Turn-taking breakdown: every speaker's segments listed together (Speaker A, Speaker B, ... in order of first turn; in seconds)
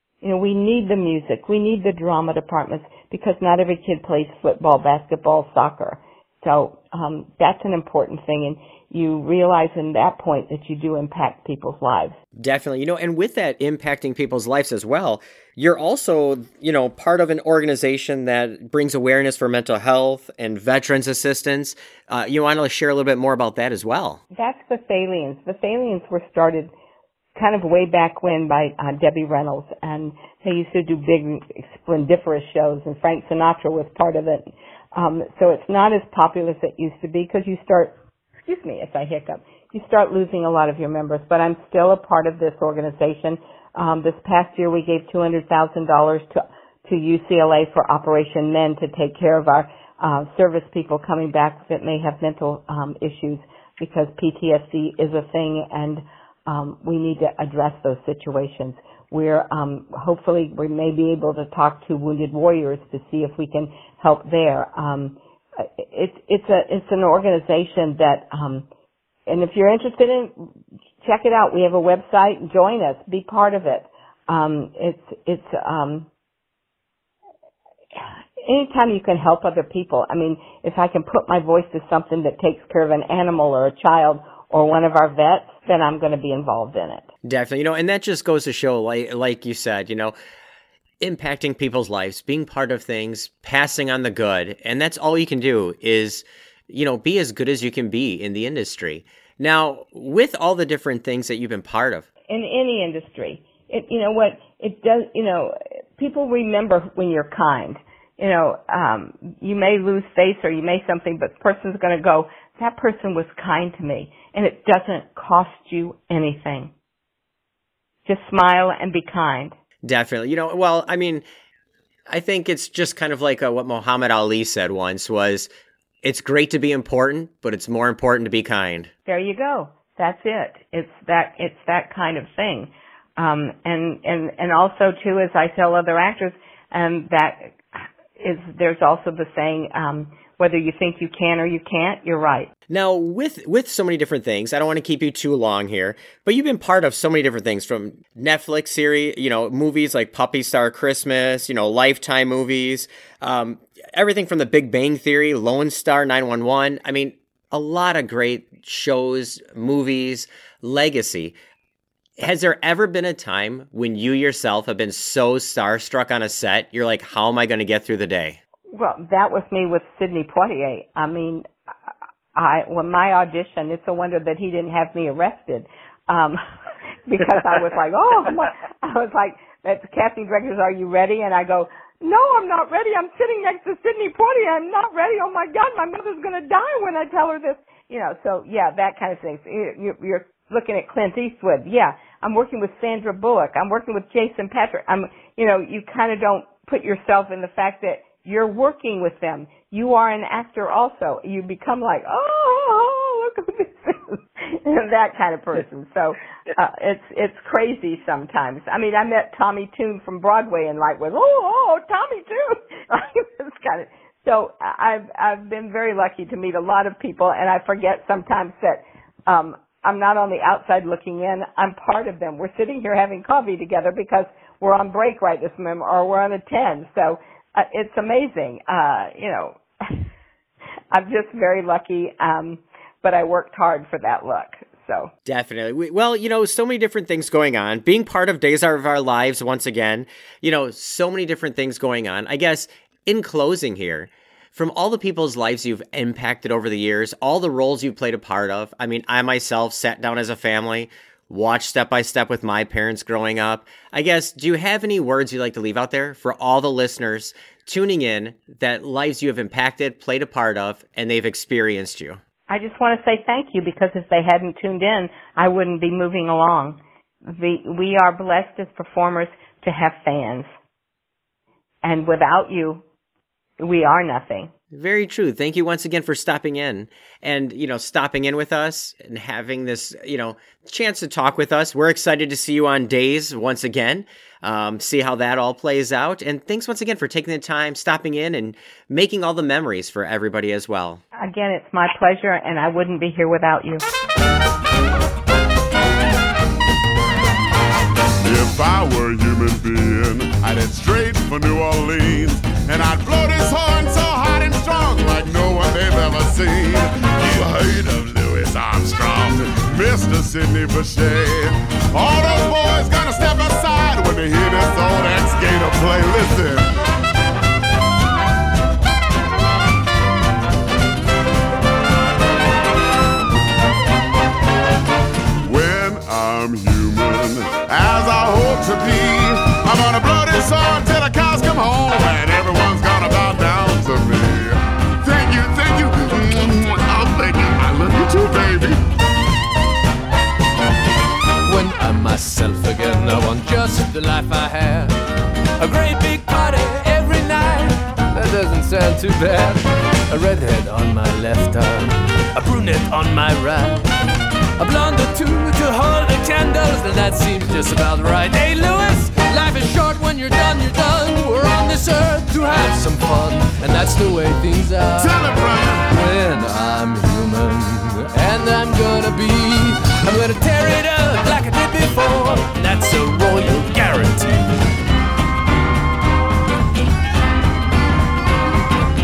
Speaker A: 0.2-12.2, 24.3-26.7, 27.4-68.6, 69.3-70.3, 71.0-76.1, 78.5-87.1, 102.3-116.7, 118.0-119.5, 129.1-137.6, 138.2-142.5, 168.7-171.4, 172.3-176.4, 177.1-229.6, 230.9-235.1, 262.5-270.5, 271.8-272.8, 273.6-274.5, 291.2-293.8
Speaker B: 12.4-24.2, 87.2-90.1, 91.0-102.0, 119.8-121.2, 122.1-125.5, 126.0-128.9, 142.7-161.3, 162.2-168.4, 235.2-262.2, 274.7-291.0
Speaker C: 298.2-316.7, 325.4-338.8, 364.9-365.9
Speaker D: 341.5-344.9, 345.6-349.6, 350.1-351.9, 352.4-353.8, 354.6-361.2, 362.3-362.7, 363.7-365.0, 368.2-372.6